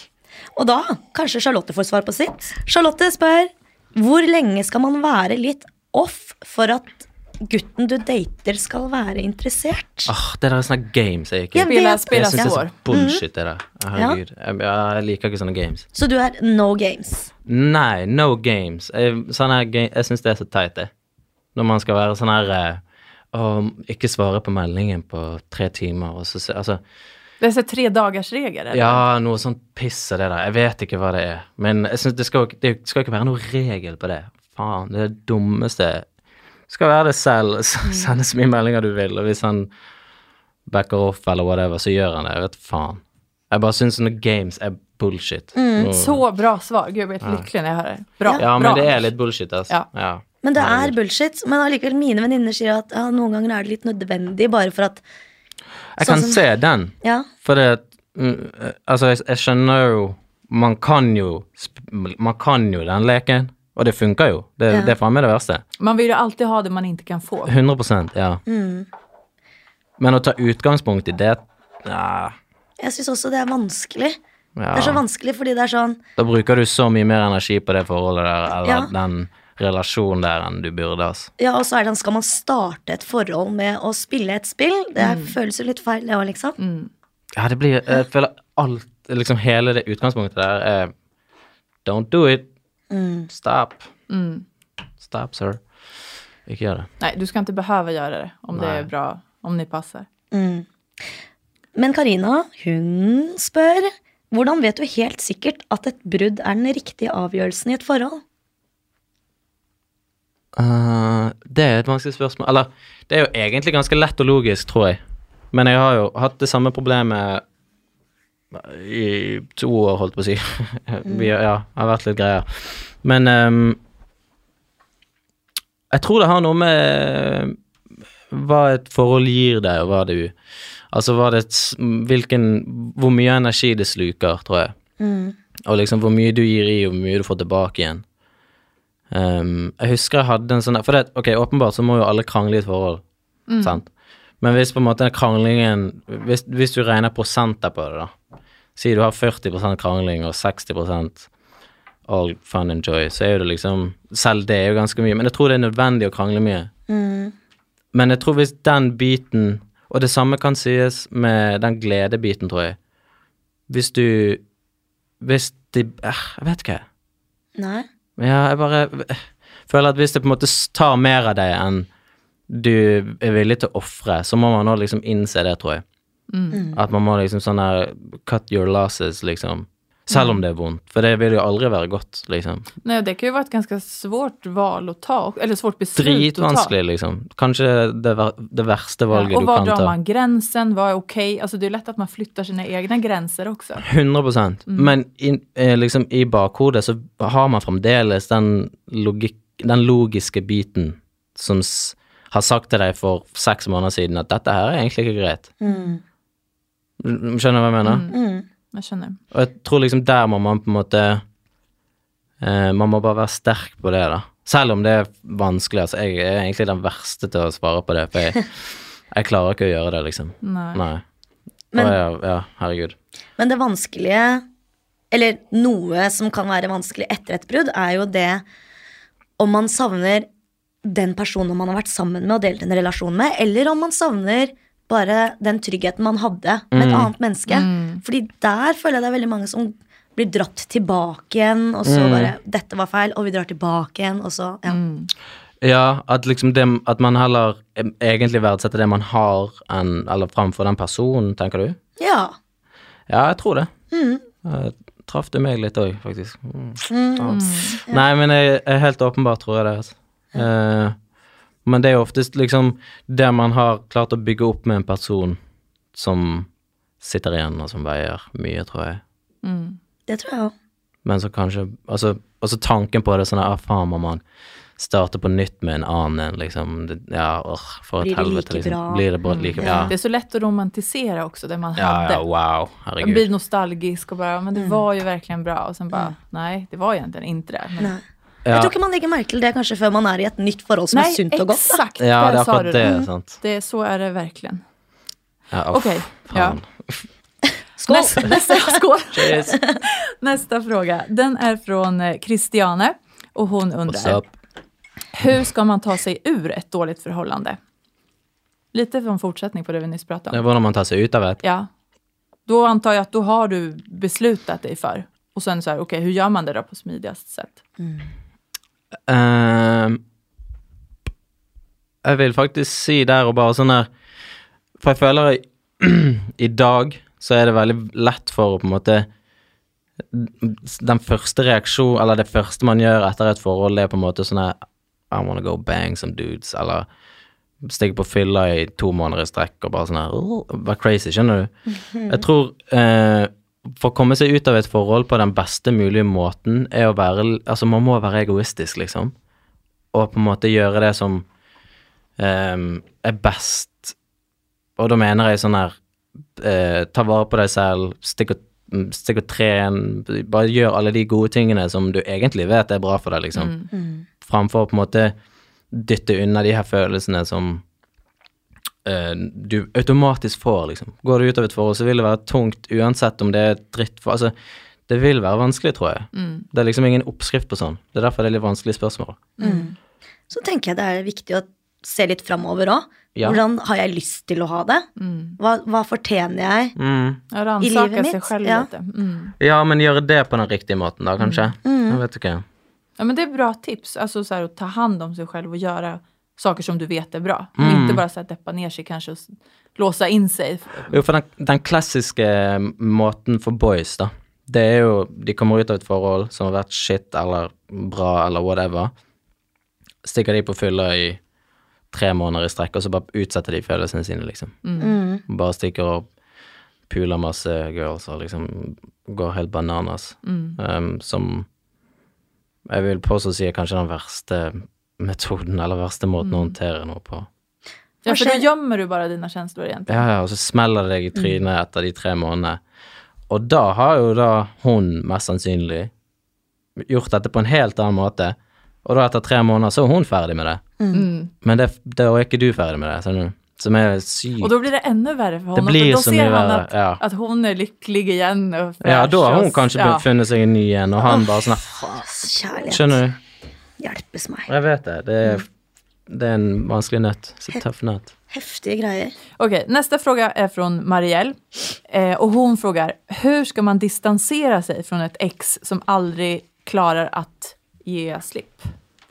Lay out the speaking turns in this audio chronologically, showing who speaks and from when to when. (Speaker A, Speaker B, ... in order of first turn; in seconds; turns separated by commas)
Speaker A: 0.5-10.1, Speaker B: 10.1-15.8, Speaker A: 11.5-13.2, Speaker C: 11.7-12.8, Speaker A: 13.9-14.2, Speaker A: 15.9-17.3, Speaker B: 17.4-20.9, Speaker B: 21.5-26.8, Speaker C: 27.4-29.0, Speaker B: 28.7-36.0, Speaker B: 36.7-39.7, Speaker B: 40.6-46.2, Speaker A: 45.5-45.9, Speaker C: 45.8-49.0, Speaker B: 47.2-47.5, Speaker B: 48.3-50.9, Speaker A: 50.4-55.0, Speaker B: 56.0-65.6, Speaker A: 56.0-56.4, Speaker A: 57.0-57.3, Speaker C: 65.8-67.5, Speaker B: 67.5-68.4, Speaker A: 68.5-68.9, Speaker B: 70.0-72.3, Speaker A: 72.8-74.2, Speaker B: 74.6-75.0, Speaker A: 74.7-76.0, Speaker B: 76.2-81.3, Speaker A: 78.6-78.9, Speaker A: 81.4-86.6, Speaker C: 85.0-85.3, Speaker C: 86.6-86.9, Speaker B: 87.3-90.9, Speaker B: 91.8-92.5, Speaker A: 92.9-93.3, Speaker B: 93.3-93.9, Speaker C: 94.1-94.4, Speaker B: 95.0-95.6, Speaker B: 96.5-96.9, Speaker C: 97.0-100.0, Speaker B: 98.5-98.9, Speaker A: 100.3-100.7, Speaker A: 101.8-108.2, Speaker B: 110.5-115.0, Speaker B: 115.5-117.4, Speaker B: 118.5-123.8, Speaker A: 121.0-121.3, Speaker B: 125.9-127.6, Speaker B: 128.3-130.3, Speaker B: 130.9-134.7, Speaker A: 135.0-135.3, Speaker B: 135.7-138.0, Speaker B: 139.1-143.0, Speaker C: 143.5-143.8, Speaker B: 143.6-143.9, Speaker B: 144.4-148.1, Speaker B: 148.8-151.3, Speaker B: 152.1-156.7, Speaker A: 156.9-157.3, Speaker B: 157.9-162.8, Speaker B: 163.7-164.4, Speaker B: 165.2-166.8, Speaker A: 167.6-167.9, Speaker B: 168.2-171.9, Speaker B: 172.5-175.8, Speaker C: 176.3-176.6, Speaker A: 176.5-176.8, Speaker B: 176.7-182.7, Speaker C: 180.1-180.4, Speaker C: 182.8-186.7, Speaker B: 185.9-189.9, Speaker C: 189.1-193.8, Speaker B: 193.8-205.5, Speaker A: 205.6-206.0, Speaker B: 207.0-208.1, Speaker C: 207.8-208.2, Speaker A: 208.1-208.4, Speaker C: 208.7-209.2, Speaker B: 209.3-211.2, Speaker B: 212.4-221.0, Speaker C: 220.4-220.8, Speaker A: 221.7-222.0, Speaker B: 221.7-222.9, Speaker A: 223.4-224.4, Speaker A: 225.1-228.4, Speaker A: 229.4-230.3, Speaker A: 230.8-244.8, Speaker B: 236.7-237.1, Speaker C: 237.5-238.0, Speaker B: 241.8-242.3, Speaker C: 244.7-245.1, Speaker B: 245.6-251.8, Speaker A: 252.0-252.3, Speaker B: 253.1-253.7, Speaker A: 253.9-254.2, Speaker B: 254.4-260.9, Speaker A: 256.9-258.0, Speaker C: 257.3-257.8, Speaker B: 261.6-265.4, Speaker B: 265.9-266.5, Speaker B: 267.0-269.0, Speaker C: 269.4-269.8, Speaker A: 270.1-270.5, Speaker B: 271.0-274.2, Speaker B: 274.8-279.9, Speaker A: 278.0-279.0, Speaker C: 279.2-282.2, Speaker A: 279.6-279.9, Speaker B: 281.8-283.3, Speaker C: 283.0-287.9, Speaker A: 284.5-284.8, Speaker A: 287.8-291.8, Speaker B: 288.4-288.7, Speaker C: 290.9-294.6, Speaker B: 292.0-293.4, Speaker B: 295.5-297.0, Speaker C: 295.7-296.6, Speaker A: 297.8-298.8, Speaker C: 297.9-304.2, Speaker B: 299.1-299.6, Speaker B: 303.9-304.2, Speaker C: 305.1-307.6, Speaker C: 308.7-310.4, Speaker B: 310.3-311.4, Speaker C: 311.4-311.7, Speaker C: 312.5-317.6, Speaker B: 319.1-320.0, Speaker B: 322.0-323.9, Speaker B: 324.8-329.1, Speaker B: 330.1-334.6, Speaker B: 335.1-336.9, Speaker B: 337.6-341.5, Speaker A: 341.9-342.2, Speaker B: 342.1-349.1, Speaker B: 349.9-351.2, Speaker B: 352.2-353.9, Speaker B: 354.8-355.7, Speaker B: 356.4-363.5, Speaker C: 363.3-363.7, Speaker A: 363.7-364.1, Speaker B: 364.2-365.1, Speaker B: 365.7-367.6, Speaker B: 368.8-374.3, Speaker B: 374.9-379.3, Speaker C: 376.1-376.4, Speaker C: 379.4-379.7, Speaker A: 379.4-379.7, Speaker A: 380.3-384.9, Speaker B: 383.1-383.4, Speaker C: 385.0-385.4, Speaker A: 385.4-386.8, Speaker B: 386.8-387.2, Speaker C: 387.3-389.3, Speaker A: 387.6-388.7, Speaker B: 389.4-392.4, Speaker C: 391.2-391.5, Speaker A: 391.6-392.0, Speaker C: 393.0-400.9, Speaker B: 397.6-398.0, Speaker B: 400.9-408.9, Speaker B: 410.0-411.2, Speaker B: 411.9-414.6, Speaker C: 414.6-414.9, Speaker A: 414.8-415.2, Speaker B: 415.3-416.0, Speaker B: 416.9-421.5, Speaker C: 420.2-420.6, Speaker B: 422.7-427.3, Speaker C: 426.2-426.5, Speaker C: 428.0-430.0, Speaker A: 428.1-428.4, Speaker B: 429.9-432.6, Speaker B: 433.3-435.9, Speaker B: 436.8-440.6, Speaker A: 440.8-441.1, Speaker C: 440.9-441.3, Speaker B: 441.4-444.6, Speaker C: 444.4-450.1, Speaker B: 445.5-447.0, Speaker B: 448.8-452.1, Speaker A: 451.0-453.0, Speaker B: 452.6-453.2, Speaker A: 453.8-454.5, Speaker B: 454.5-455.5, Speaker B: 456.1-458.1, Speaker A: 458.3-459.1, Speaker C: 459.4-468.7